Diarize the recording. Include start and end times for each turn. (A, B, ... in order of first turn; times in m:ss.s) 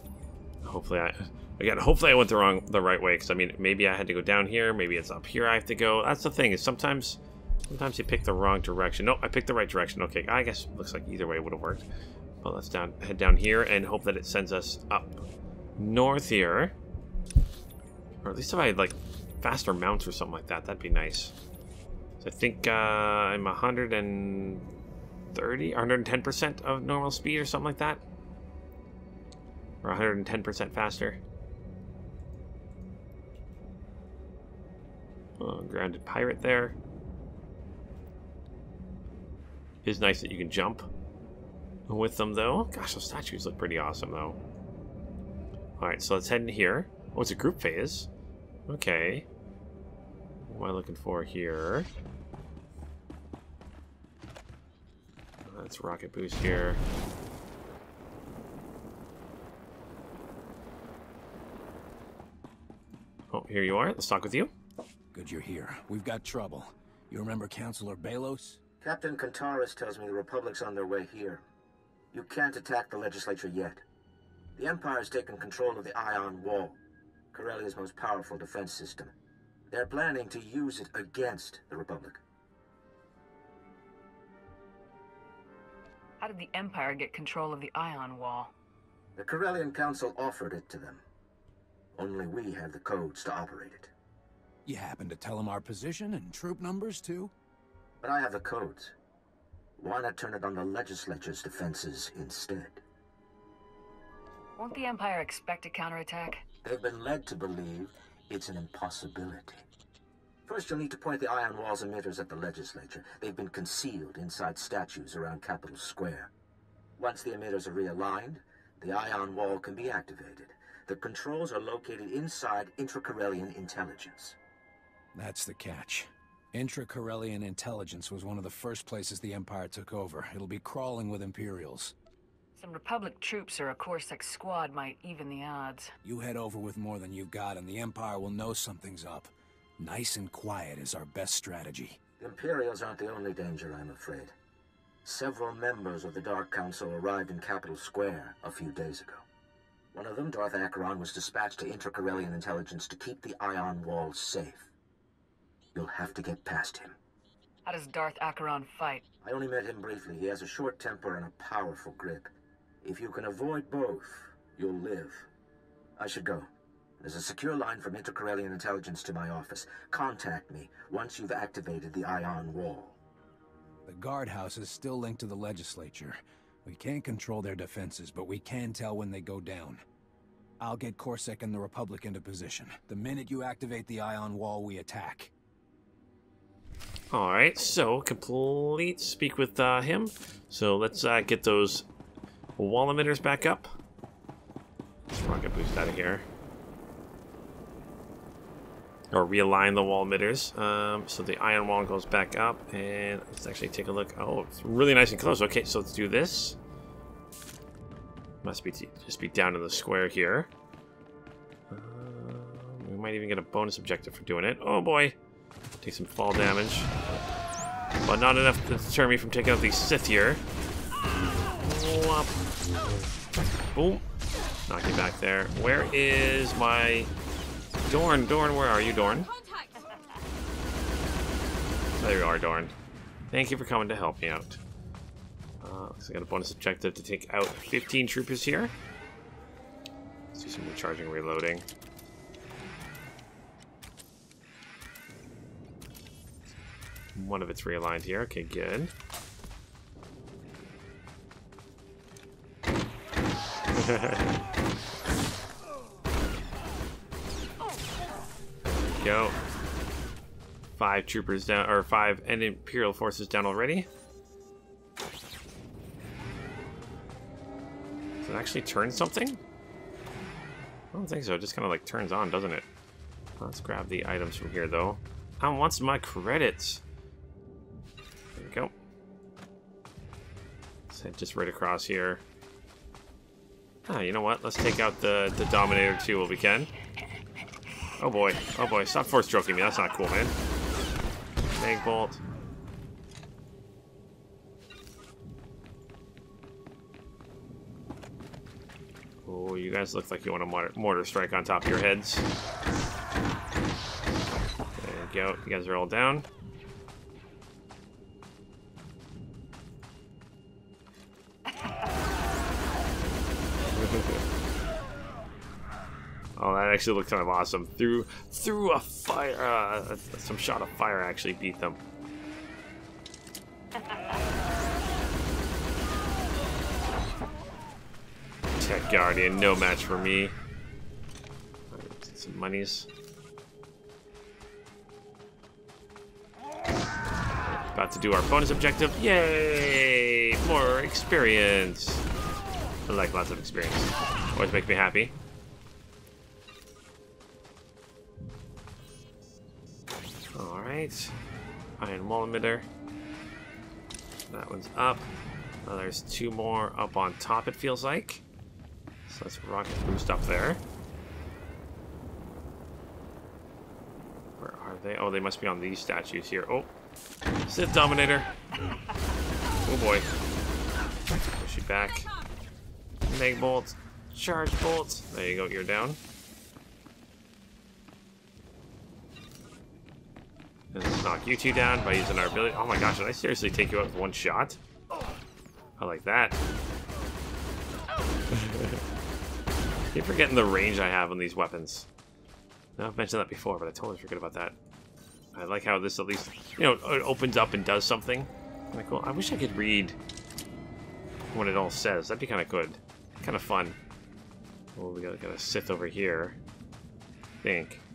0:00.6-0:11.9 A
0:12.4-0:15.2 A
0:15.8-0:16.7 A
0:18.2-0:21.4 A
0:22.2-0:24.6 A
0:25.3-0:28.0 A
0:29.8-0:31.2 A
0:35.4-0:36.8 A
0:39.8-0:40.9 A
0:41.9-0:44.4 A
0:45.8-0:48.1 A
0:48.7-0:49.3 A
0:50.5-0:51.9 A
0:55.4-0:56.8 A
1:03.3-1:04.5 A
1:05.1-1:08.6 B
1:08.8-1:11.4 C
1:12.1-1:13.8 C
1:14.6-1:16.8 C
1:17.3-1:19.1 C
1:19.7-1:22.2 C
1:26.2-1:28.5 D
1:29.2-1:31.0 C
1:32.0-1:33.9 C
1:34.7-1:37.3 B
1:38.0-1:39.0 C
1:39.8-1:42.8 C
1:44.6-1:46.4 D
1:46.6-1:49.6 C
1:50.5-1:56.3 C
1:57.0-2:04.4 C
2:05.1-2:12.0 B
2:12.6-2:15.9 D
2:16.0-2:22.0 B
2:22.2-2:24.3 C
2:25.0-2:29.2 C
2:29.9-2:34.7 C
2:35.8-2:37.0 C
2:37.6-2:39.0 D
2:39.2-2:45.3 C
2:46.0-2:46.5 C
2:47.0-2:53.0 C
2:53.9-2:59.8 B
3:00.6-3:05.3 B
3:07.1-3:11.9 A
3:12.6-3:13.7 A
3:15.1-3:16.2 A
3:19.1-3:26.6 A
3:28.4-3:30.5 A
3:31.7-3:35.2 A
3:35.8-3:36.9 A
3:38.0-3:40.4 A
3:41.6-3:42.4 A
3:43.7-3:44.0 A
3:44.7-3:47.1 A
3:47.8-3:49.3 A
3:52.0-3:52.7 A
3:53.3-3:54.6 A
3:55.6-3:58.7 A
4:00.3-4:01.7 A
4:07.2-4:08.9 A
4:13.8-4:14.4 A
4:18.6-4:19.4 A
4:20.8-4:23.9 A
4:28.2-4:29.4 A
4:30.9-4:32.7 A
4:33.4-4:36.8 A
4:38.4-4:38.7 A
4:40.9-4:42.2 A
4:43.9-4:46.7 A
4:48.0-4:50.3 A
4:51.5-4:52.2 A
4:59.2-5:02.3 A
5:04.8-5:06.3 A
5:13.8-5:14.2 A
5:16.4-5:21.8 A
5:28.6-5:30.4 A
5:31.7-5:32.9 A
5:37.7-5:42.0 A
5:42.9-5:45.1 A
5:50.4-5:51.2 A
5:51.8-5:52.7 A
5:54.3-5:55.1 A
5:55.6-5:58.2 A
5:59.1-6:00.6 A
6:04.4-6:06.7 A
6:07.5-6:08.3 A
6:09.6-6:10.1 A
6:11.4-6:12.1 A
6:13.1-6:16.0 A
6:20.7-6:24.6 A
6:25.8-6:26.4 A
6:28.3-6:28.8 A
6:29.9-6:31.9 A
6:32.8-6:34.6 A
6:35.3-6:40.0 A
6:41.3-6:43.8 A
6:44.8-6:46.4 A
6:47.4-6:47.8 A